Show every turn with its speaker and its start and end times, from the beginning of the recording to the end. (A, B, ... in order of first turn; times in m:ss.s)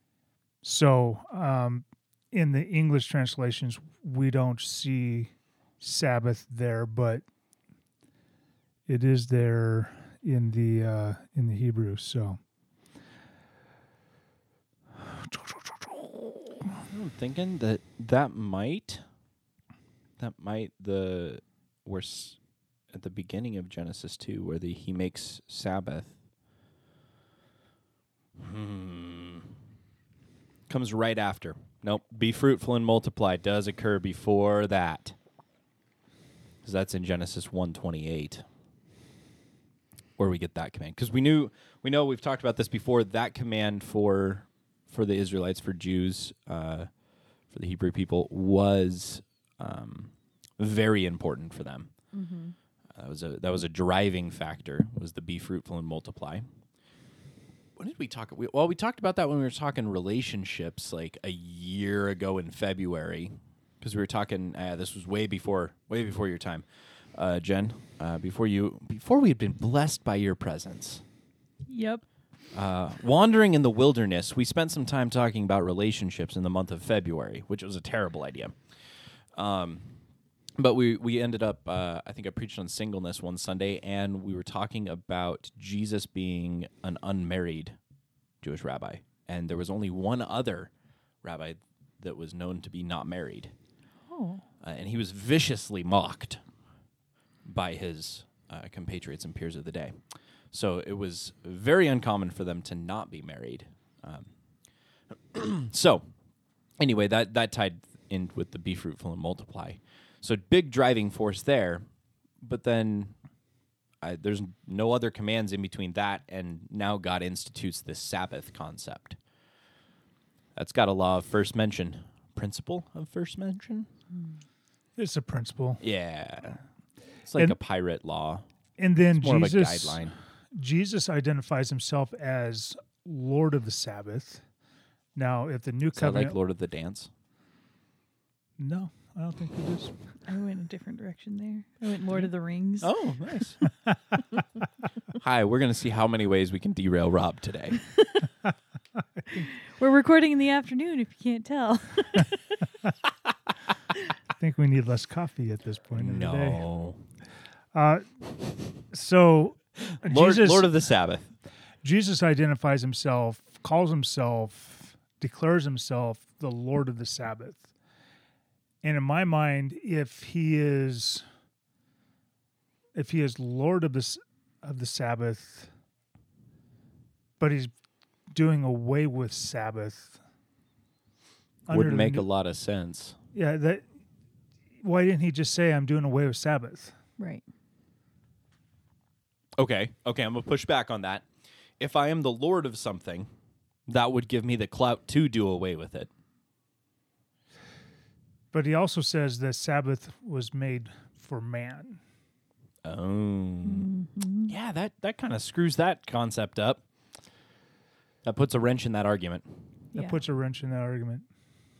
0:00.6-0:07.2 A
0:08.9-0:12.4 A
0:15.0-0:16.7 A
0:16.9-0:19.0 B
0:20.2-0:22.4 B
0:22.9-0:26.1 B
0:28.4-0:29.5 B
0:30.7-0:35.2 B
0:36.6-0:38.4 B
0:40.2-0:46.9 B
0:47.5-0:51.9 B
0:52.1-0:52.5 C
0:53.0-0:56.5 B
0:57.8-1:11.0 B
1:11.7-1:12.0 C
1:12.5-1:18.6 B
1:19.3-1:19.9 B
1:20.6-1:27.8 B
1:28.4-1:30.7 B
1:31.2-1:33.5 B
1:34.1-1:34.4 C
1:34.6-1:36.4 B
1:37.4-1:40.0 B
1:40.5-1:44.3 B
1:45.1-1:46.1 B
1:46.8-1:51.8 B
1:52.4-1:53.1 B
1:54.0-1:59.2 B
2:00.6-2:03.9 B
2:05.0-2:05.8 A
2:05.8-2:06.6 B
2:07.2-2:08.4 B
2:08.8-2:10.0 A
2:09.1-2:10.2 B
2:10.5-2:14.4 A
2:15.1-2:16.4 A
2:15.9-2:17.1 B
2:18.6-2:19.9 A
2:20.3-2:22.9 C
2:22.8-2:23.6 B
2:25.2-2:27.8 B
2:29.7-2:32.6 C
2:34.4-2:36.6 A
2:35.9-2:37.0 B
2:37.7-2:38.2 A
2:38.8-2:40.7 A
2:40.0-2:41.3 B
2:41.8-2:47.7 A
2:48.8-2:51.2 A
2:53.0-2:55.7 A
2:57.4-2:57.7 A
2:58.3-3:00.2 A
3:01.7-3:02.2 A
3:01.7-3:03.2 B
3:03.3-3:03.8 A
3:04.8-3:06.9 A
3:07.2-3:07.4 C
3:09.6-3:11.2 B
3:11.8-3:13.3 B
3:13.9-3:16.1 B
3:18.5-3:22.0 A
3:22.8-3:23.9 B
3:23.6-3:24.5 C
3:24.5-3:26.8 B
3:28.2-3:29.5 B
3:29.9-3:30.2 C
3:29.9-3:31.3 A